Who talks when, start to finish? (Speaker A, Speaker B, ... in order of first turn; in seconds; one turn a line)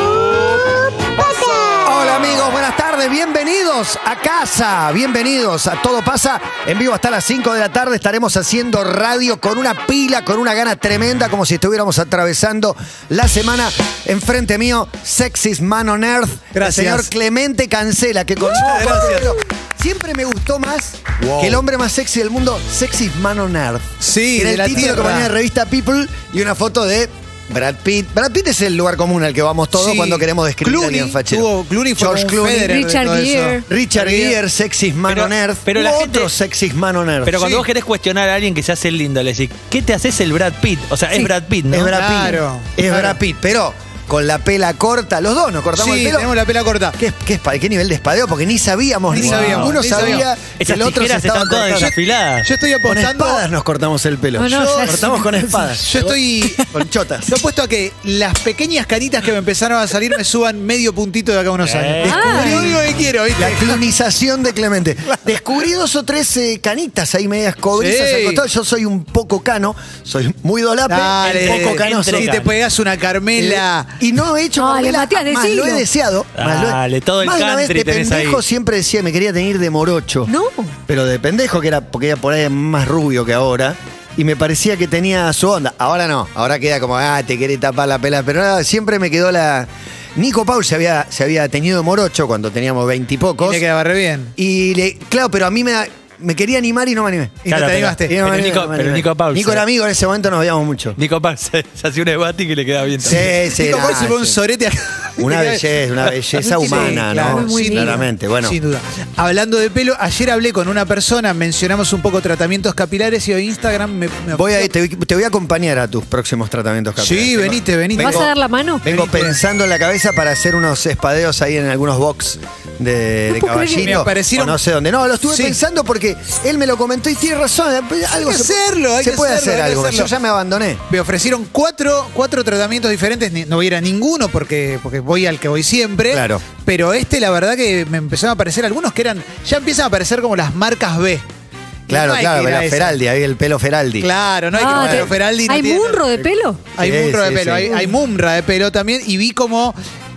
Speaker A: 1.7-32.8
Speaker B: 16.6-17.1
Speaker B: 18.4-19.4
Speaker B: 24.0-25.3
Speaker B: 29.7-34.4
Speaker C: 32.7-33.7
Speaker A: 33.7-37.4
Speaker D: 35.1-36.3
Speaker D: 37.2-42.0
Speaker B: 37.4-37.6
Speaker A: 41.7-46.3
Speaker B: 41.9-43.2
Speaker B: 45.8-47.0
Speaker A: 47.0-51.9
Speaker B: 49.1-50.2
Speaker D: 49.1-52.5
Speaker B: 51.8-53.5
Speaker A: 52.9-57.4
Speaker C: 54.4-55.8
Speaker B: 55.9-56.7
Speaker B: 57.3-63.8
Speaker D: 61.6-62.5
Speaker C: 62.0-62.7
Speaker A: 62.1-62.8
Speaker A: 63.4-72.3
Speaker B: 67.8-68.4
Speaker B: 70.9-73.9
Speaker D: 71.3-72.5
Speaker A: 73.4-80.3
Speaker C: 74.6-75.9
Speaker D: 76.4-78.4
Speaker C: 80.3-80.8
Speaker A: 80.9-93.6
Speaker B: 93.4-94.3
Speaker A: 94.4-101.0
Speaker B: 97.5-98.2
Speaker D: 97.5-99.6
Speaker D: 101.0-103.3
Speaker B: 103.0-105.6
Speaker A: 103.0-104.4
Speaker A: 105.2-108.6
Speaker B: 106.3-114.7
Speaker C: 106.6-108.0
Speaker A: 114.3-118.3
Speaker B: 117.0-118.3
Speaker C: 118.0-118.8
Speaker A: 118.8-130.8
Speaker B: 118.8-119.4
Speaker C: 123.3-124.0
Speaker B: 123.8-124.6
Speaker B: 125.3-125.6
Speaker B: 128.2-130.1
Speaker B: 130.9-141.3
Speaker A: 136.1-136.5
Speaker B: 141.9-143.0
Speaker A: 141.9-144.1
Speaker B: 144.0-146.0
Speaker C: 144.6-146.6
Speaker A: 144.6-145.1
Speaker B: 146.8-149.8
Speaker A: 146.8-147.8
Speaker C: 147.7-147.9